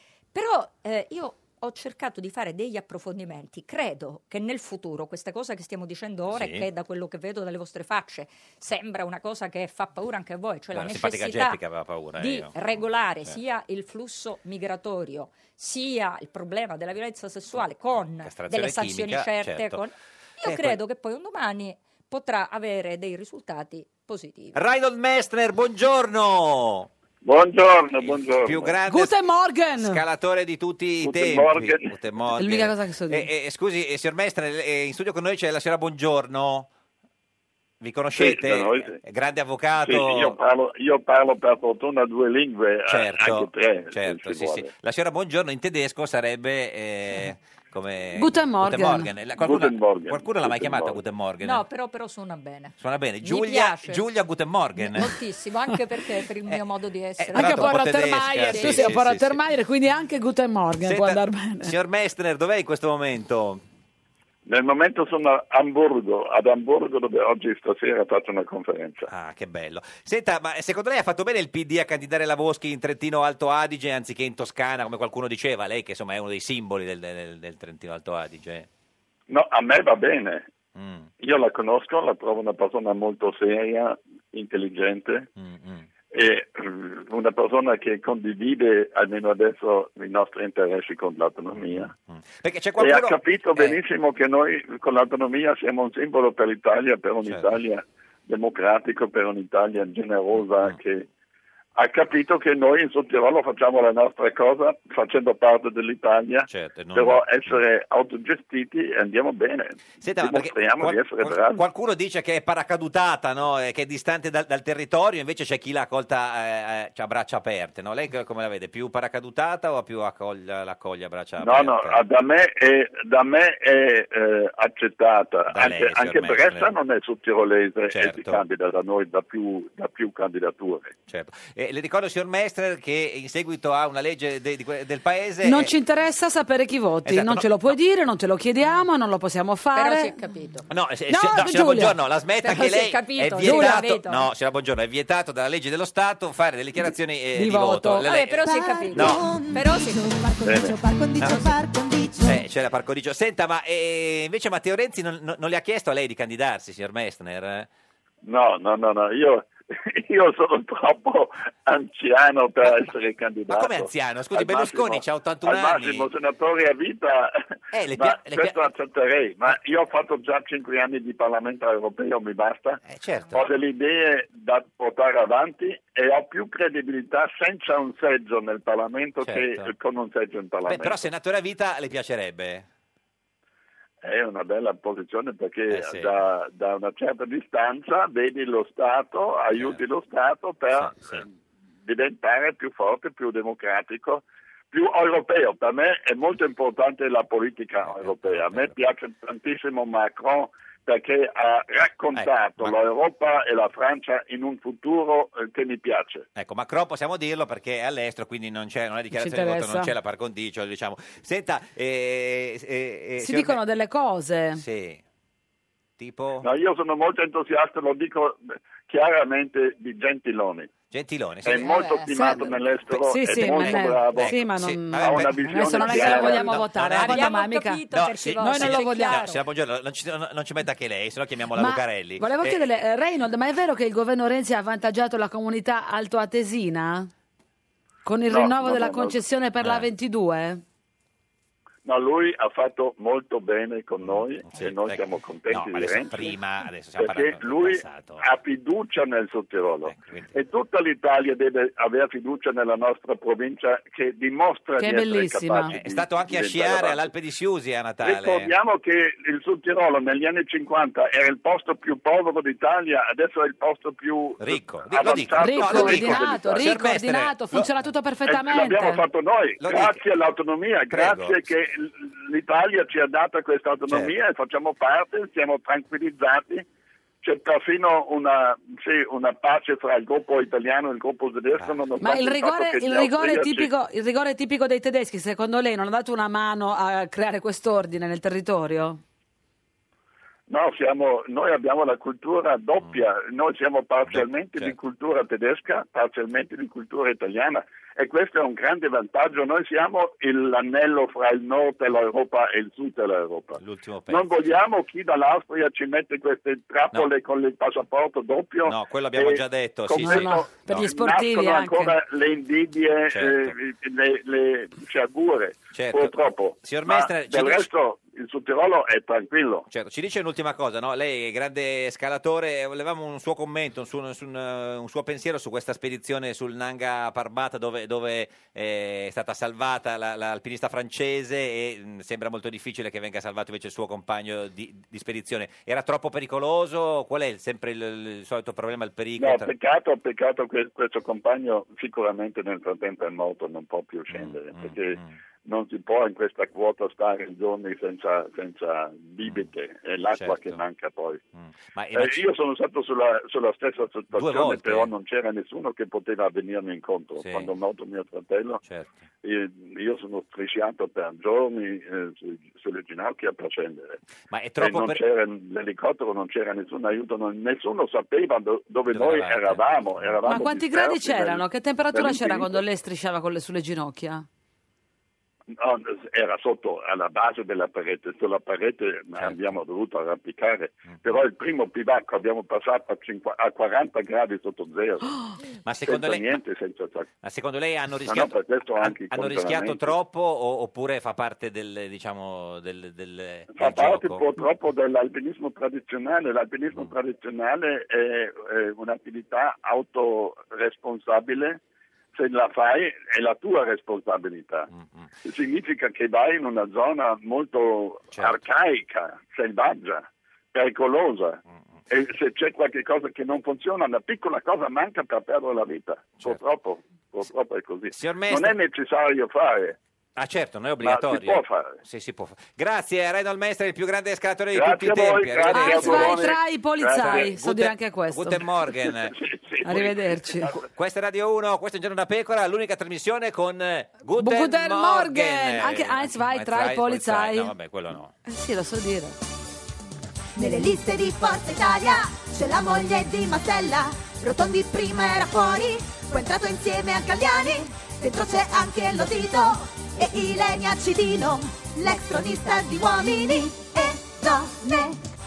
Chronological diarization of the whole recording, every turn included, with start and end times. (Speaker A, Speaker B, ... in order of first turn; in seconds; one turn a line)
Speaker A: 0.3-11.6
Speaker B: 6.3-6.7
Speaker B: 10.7-12.6
Speaker A: 12.2-24.6
Speaker B: 18.2-19.8
Speaker B: 20.4-20.8
Speaker B: 24.5-26.9
Speaker C: 27.2-28.8
Speaker B: 28.0-29.2
Speaker D: 28.8-30.0
Speaker B: 29.8-36.7
Speaker C: 31.0-31.9
Speaker D: 32.4-33.3
Speaker B: 37.8-40.4
Speaker C: 38.2-39.0
Speaker C: 39.8-44.7
Speaker B: 42.9-51.6
Speaker D: 48.2-49.1
Speaker C: 49.4-51.0
Speaker A: 51.4-54.0
Speaker B: 52.8-55.1
Speaker A: 54.8-59.0
Speaker B: 57.2-59.4
Speaker D: 57.3-61.7
Speaker B: 60.8-63.6
Speaker C: 64.5-69.1
Speaker B: 69.1-78.7
Speaker C: 79.3-80.5
Speaker B: 80.8-81.1
Speaker C: 81.2-85.3
Speaker B: 85.4-85.9
Speaker C: 86.1-91.9
Speaker B: 91.6-93.8
Speaker C: 92.8-101.1
Speaker C: 101.8-111.6
Speaker B: 106.5-107.6
Speaker B: 110.0-122.0
Speaker C: 121.4-130.9
Speaker B: 125.5-126.7
Speaker B: 127.9-128.4
Speaker B: 131.1-135.8
Speaker D: 135.4-140.1
Speaker B: 137.1-137.7
Speaker A: 139.7-140.7
Speaker B: 140.7-149.3
Speaker D: 141.1-142.0
Speaker A: 142.4-144.3
Speaker D: 143.4-143.8
Speaker D: 147.3-148.1
Speaker A: 148.0-150.1
Speaker E: 148.4-152.4
Speaker C: 150.4-150.7
Speaker B: 151.2-151.5
Speaker B: 152.2-157.7
Speaker C: 158.2-167.4
Speaker B: 163.5-166.1
Speaker B: 167.7-168.7
Speaker C: 168.0-181.0
Speaker B: 172.8-173.5
Speaker B: 179.2-179.7
Speaker B: 180.7-182.7
Speaker C: 184.0-191.3
Speaker B: 185.7-186.1
Speaker B: 189.5-189.8
Speaker B: 190.8-191.2
Speaker C: 191.8-206.3
Speaker B: 197.8-198.8
Speaker B: 202.2-202.8
Speaker B: 206.3-213.6
Speaker D: 209.1-209.9
Speaker D: 213.2-214.6
Speaker B: 214.6-215.0
Speaker B: 216.0-216.5
Speaker C: 216.4-220.7
Speaker B: 220.9-222.3
Speaker C: 221.4-224.4
Speaker A: 221.6-222.1
Speaker D: 222.1-229.3
Speaker B: 222.9-227.3
Speaker C: 224.9-226.6
Speaker A: 226.0-226.4
Speaker A: 226.9-229.4
Speaker B: 227.9-232.7
Speaker D: 231.5-237.1
Speaker D: 238.1-240.6
Speaker C: 238.3-239.2
Speaker B: 239.6-239.9
Speaker C: 241.8-246.3
Speaker B: 244.1-248.2
Speaker C: 247.0-257.1
Speaker B: 249.9-250.3
Speaker D: 254.8-255.8
Speaker B: 255.7-258.5
Speaker C: 258.0-266.7
Speaker B: 264.4-267.7
Speaker D: 265.4-269.0
Speaker C: 268.3-276.7
Speaker B: 269.6-270.0
Speaker B: 270.9-271.4
Speaker C: 277.2-283.7
Speaker D: 282.0-289.0
Speaker C: 290.5-319.7
Speaker B: 294.1-294.7
Speaker B: 303.6-304.4
Speaker B: 308.6-310.9
Speaker D: 310.0-311.9
Speaker B: 313.1-313.5
Speaker B: 315.7-317.7
Speaker B: 319.7-339.5
Speaker C: 339.2-351.2
Speaker B: 344.1-345.2
Speaker B: 350.2-350.6
Speaker B: 351.4-352.2
Speaker C: 351.9-358.6
Speaker B: 354.1-354.9
Speaker B: 357.2-357.5
Speaker B: 358.6-359.1
Speaker C: 359.2-364.0
Speaker B: 364.3-365.0
Speaker C: 364.6-372.6
Speaker B: 368.9-370.5
Speaker D: 370.2-374.2
Speaker C: 375.6-385.1
Speaker B: 385.6-386.4
Speaker C: 385.9-387.1
Speaker B: 387.2-394.3
Speaker C: 388.1-389.9
Speaker C: 393.5-401.6
Speaker C: 402.1-404.7
Speaker B: 404.7-405.1
Speaker C: 405.2-419.8
Speaker B: 417.9-418.6
Speaker B: 420.2-426.4
Speaker C: 420.8-421.8
Speaker C: 424.5-427.3
Speaker D: 425.5-428.4
Speaker B: 426.9-429.9
Speaker C: 429.0-430.1
Speaker D: 429.6-430.5
Speaker B: 430.6-438.1
Speaker D: 434.2-437.5
Speaker D: 438.2-439.2
Speaker E: 440.4-455.0